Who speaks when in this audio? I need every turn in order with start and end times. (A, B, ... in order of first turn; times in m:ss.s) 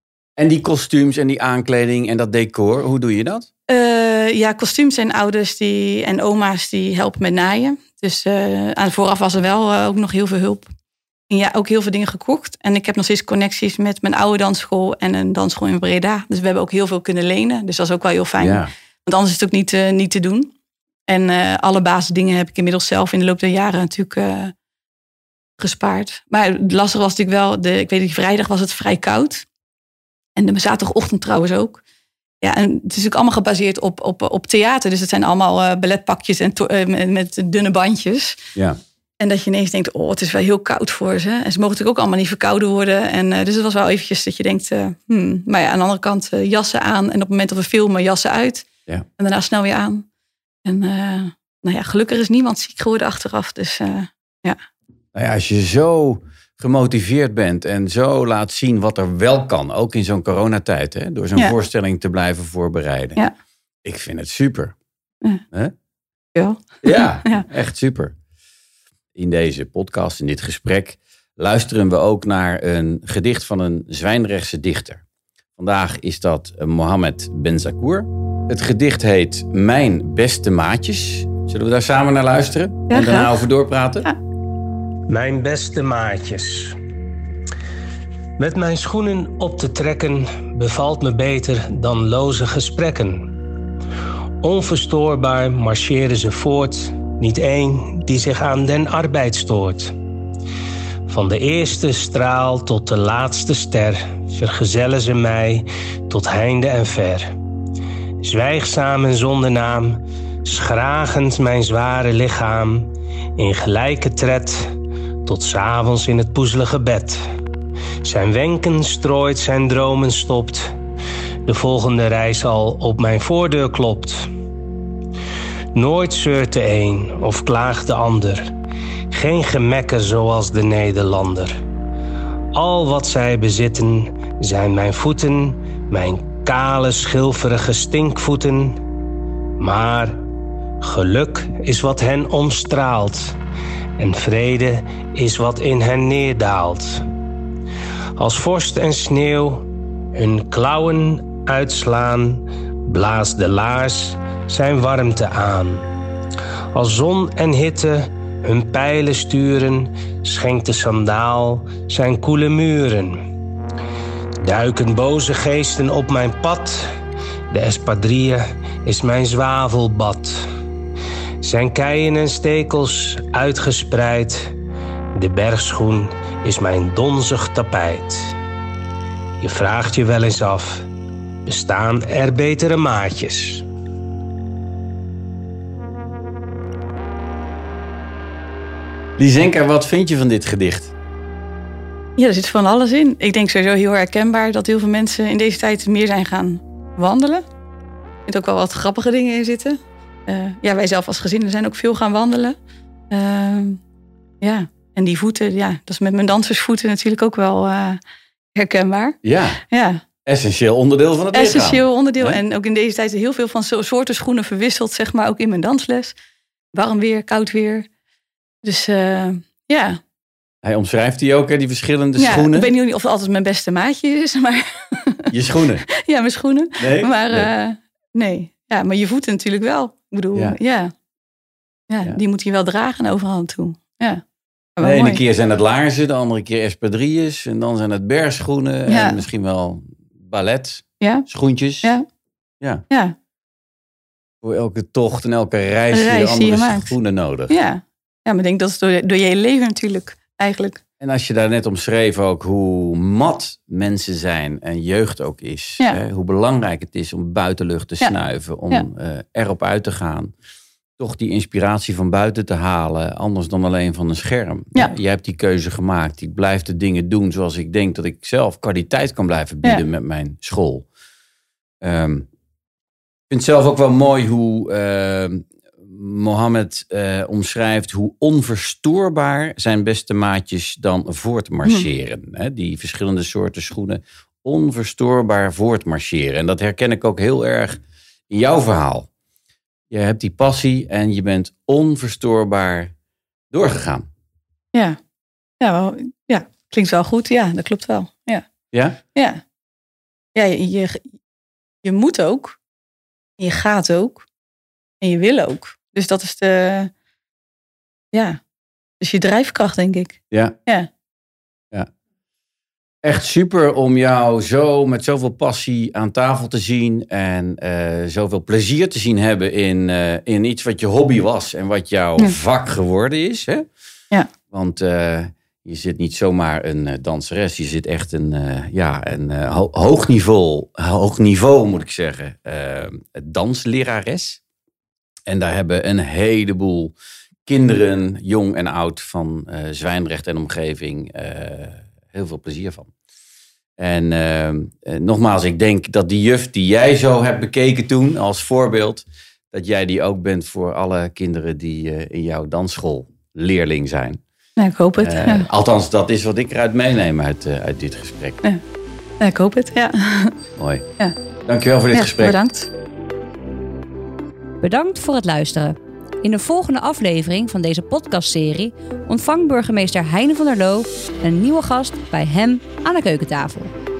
0:00.4-0:03.5 A
0:03.7-0:10.7 B
0:11.3-0:20.5 B
0:18.4-0:18.7 A
0:21.1-0:24.5 B
0:25.6-0:29.4 B
0:30.4-0:31.8 B
0:32.4-0:38.4 B
0:39.2-0:48.6 B
0:49.2-0:50.0 B
0:50.6-0:54.6 B
0:55.1-1:03.2 A
1:03.8-1:04.7 A
1:06.3-1:07.4 B
1:06.8-1:08.1 A
1:09.1-1:15.0 A
1:15.6-1:24.1 A
1:22.9-1:23.4 B
1:25.1-1:26.7 C
1:28.4-1:33.3 C
1:34.4-1:39.9 C
1:41.1-1:47.3 C
1:48.2-1:54.6 C
1:55.2-1:57.2 C
1:58.0-2:00.7 C
2:01.4-2:04.3 C
2:05.7-2:08.4 C
2:09.1-2:11.5 C
2:12.5-2:18.8 C
2:19.6-2:20.2 C
2:20.8-2:23.3 C
2:24.0-2:27.0 C
2:28.2-2:35.8 C
2:36.7-2:43.2 C
2:44.4-2:46.8 C
2:47.5-2:50.4 C
2:51.4-2:54.5 C
2:55.2-2:58.3 C
2:59.4-3:00.8 C
3:01.4-3:03.6 C
3:09.2-3:10.9 A
3:12.2-3:17.4 B
3:18.3-3:22.6 B
3:23.1-3:23.8 B
3:24.4-3:28.0 B
3:28.5-3:30.0 B
3:29.2-3:29.6 A
3:30.2-3:32.4 A
3:31.3-3:36.2 B
3:36.7-3:37.8 B
3:38.6-3:40.0 B
3:40.6-3:42.7 A
3:42.2-3:45.3 B
3:45.3-3:45.8 A
3:45.9-3:50.9 B
3:46.8-3:47.5 A
3:51.9-3:54.2 B
3:54.8-3:55.2 B
3:54.8-4:01.9 A
3:58.9-3:59.2 B
4:01.0-4:01.2 B
4:02.9-4:03.1 B
4:04.4-4:07.6 A
4:05.9-4:06.9 B
4:07.5-4:10.8 B
4:11.0-4:20.3 A
4:21.0-4:30.9 A
4:31.8-4:32.2 A
4:33.3-4:47.8 A
4:48.3-4:49.1 A
4:49.9-4:52.9 A
4:53.5-4:54.0 A
4:55.6-4:58.5 B
4:58.7-4:59.0 A
4:59.1-4:59.4 B
5:00.3-5:01.1 B
5:01.8-5:02.6 B
5:03.4-5:04.2 B
5:05.0-5:06.9 B
5:08.1-5:08.4 B
5:09.0-5:10.9 B
5:13.0-5:23.6 A
5:24.5-5:34.4 A
5:35.3-5:36.9 A
5:37.4-5:42.9 A
5:43.8-5:54.2 A
5:54.6-5:55.5 B
5:55.0-5:58.4 A
5:59.2-6:00.3 B
6:00.6-6:00.8 A
6:01.4-6:02.4 A
6:01.9-6:02.7 B
6:04.6-6:13.7 D